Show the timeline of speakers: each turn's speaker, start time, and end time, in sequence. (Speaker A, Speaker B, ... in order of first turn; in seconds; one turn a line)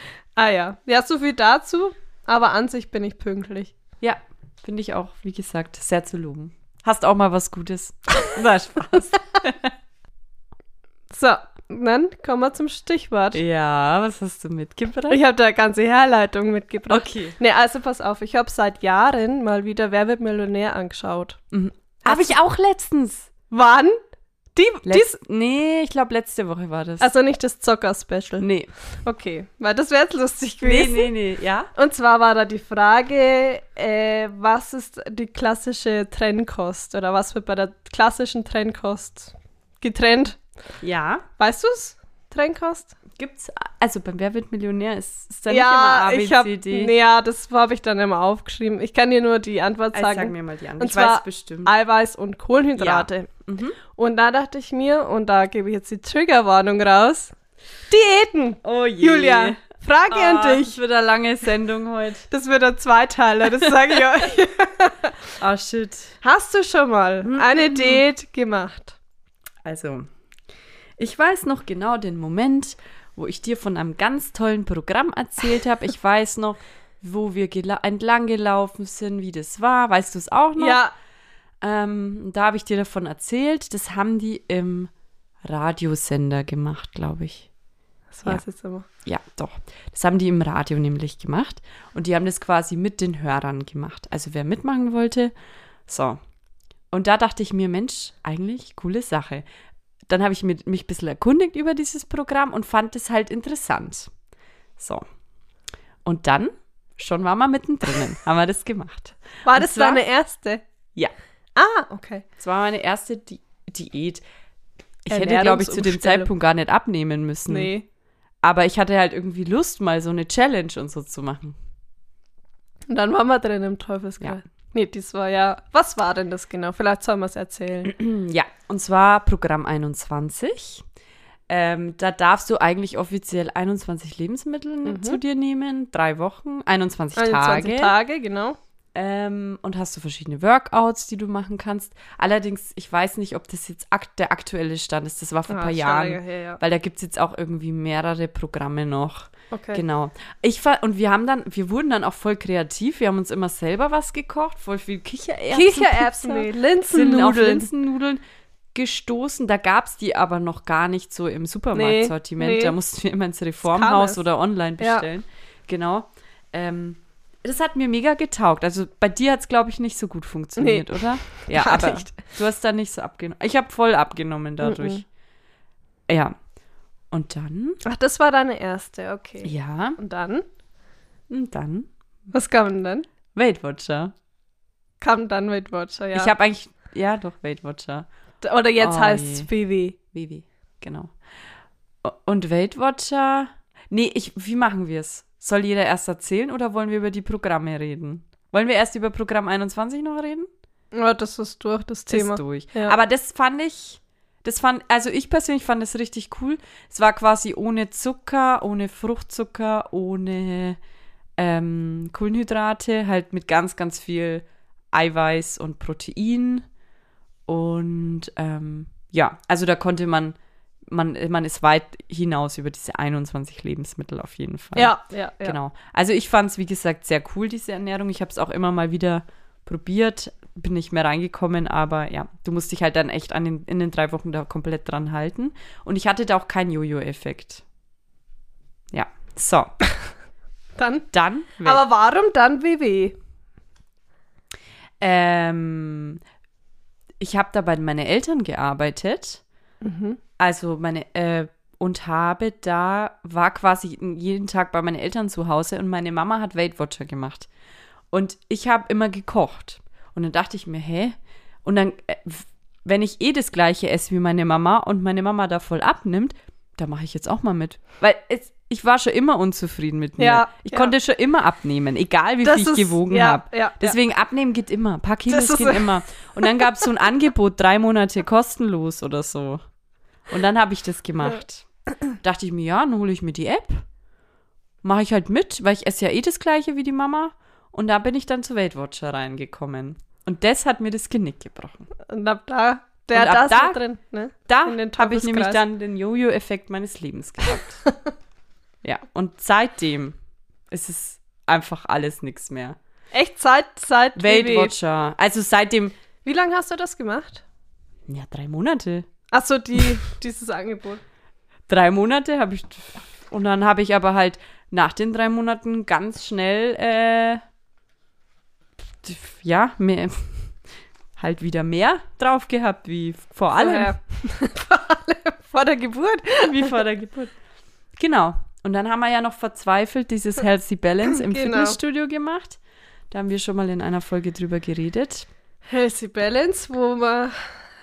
Speaker A: 0.3-3.7
Speaker B: 4.0-9.7
Speaker A: 11.1-13.4
Speaker B: 13.3-15.2
Speaker A: 15.1-21.4
Speaker B: 16.9-17.4
Speaker B: 21.5-23.3
Speaker A: 22.0-22.3
Speaker A: 23.5-24.0
Speaker A: 24.5-25.2
Speaker B: 24.8-27.1
Speaker A: 27.0-28.5
Speaker B: 28.4-28.7
Speaker A: 29.0-31.1
Speaker B: 30.6-31.7
Speaker A: 31.7-40.4
Speaker B: 40.8-41.2
Speaker A: 41.4-43.0
Speaker B: 43.1-46.9
Speaker A: 45.5-53.3
Speaker B: 49.9-51.7
Speaker B: 52.8-53.8
Speaker A: 53.9-57.3
Speaker A: 57.9-60.8
Speaker B: 58.6-59.6
Speaker B: 60.1-62.2
Speaker A: 62.3-65.2
Speaker B: 65.4-66.2
Speaker A: 66.2-69.0
Speaker B: 67.2-68.0
Speaker B: 69.6-70.1
Speaker B: 71.0-80.8
Speaker A: 80.6-80.9
Speaker B: 81.6-84.9
Speaker B: 85.4-87.5
Speaker A: 88.1-88.9
Speaker B: 89.0-95.3
Speaker B: 95.9-96.2
Speaker B: 96.9-99.4
Speaker B: 100.1-104.1
Speaker B: 104.8-105.0
Speaker B: 106.0-110.0
Speaker A: 109.4-110.6
Speaker A: 111.5-112.2
Speaker B: 112.4-114.2
Speaker B: 115.0-117.7
Speaker A: 115.1-116.3
Speaker A: 117.5-117.8
Speaker B: 118.4-121.6
Speaker A: 122.9-127.9
Speaker B: 127.8-130.8
Speaker B: 131.5-137.9
Speaker A: 134.8-135.2
Speaker A: 137.2-138.6
Speaker B: 138.9-158.2
Speaker A: 145.5-146.6
Speaker A: 149.5-149.8
Speaker A: 155.5-157.7
Speaker B: 158.7-175.0
Speaker A: 161.7-162.7
Speaker A: 163.7-164.2
Speaker A: 164.8-165.0
Speaker A: 170.6-172.2
Speaker A: 174.6-175.0
Speaker B: 176.1-176.3
Speaker B: 177.1-177.8
Speaker A: 177.8-180.4
Speaker B: 179.4-180.0
Speaker B: 181.3-181.9
Speaker A: 182.3-183.1
Speaker B: 183.3-184.1
Speaker A: 185.0-186.3
Speaker B: 186.1-188.1
Speaker A: 188.4-190.0
Speaker B: 188.8-189.5
Speaker B: 190.1-191.1
Speaker B: 192.0-200.5
Speaker A: 200.9-202.9
Speaker B: 202.1-210.8
Speaker B: 211.4-216.7
Speaker B: 217.5-220.4
Speaker B: 220.9-237.6
Speaker A: 224.7-225.6
Speaker B: 238.9-239.7
Speaker A: 240.8-241.1
Speaker B: 241.1-241.8
Speaker A: 241.6-243.2
Speaker B: 245.0-246.2
Speaker B: 247.2-249.4
Speaker A: 249.8-250.2
Speaker B: 250.4-257.5
Speaker B: 258.1-279.6
Speaker A: 270.2-270.9
Speaker A: 272.4-274.0
Speaker A: 275.3-275.9
Speaker A: 276.4-276.8
Speaker B: 280.3-283.8
Speaker B: 284.8-291.9
Speaker A: 292.1-295.6
Speaker B: 293.1-293.8
Speaker B: 294.5-297.8
Speaker B: 298.8-300.1
Speaker B: 300.7-302.8
Speaker A: 303.1-304.7
Speaker B: 304.2-305.9
Speaker A: 306.2-307.4
Speaker B: 308.1-309.1
Speaker A: 309.3-311.0
Speaker B: 311.7-317.4
Speaker B: 319.0-320.5
Speaker B: 321.2-323.9
Speaker A: 323.6-326.8
Speaker B: 326.4-327.3
Speaker B: 328.0-332.6
Speaker A: 331.1-331.8
Speaker B: 333.1-335.3
Speaker A: 335.7-337.4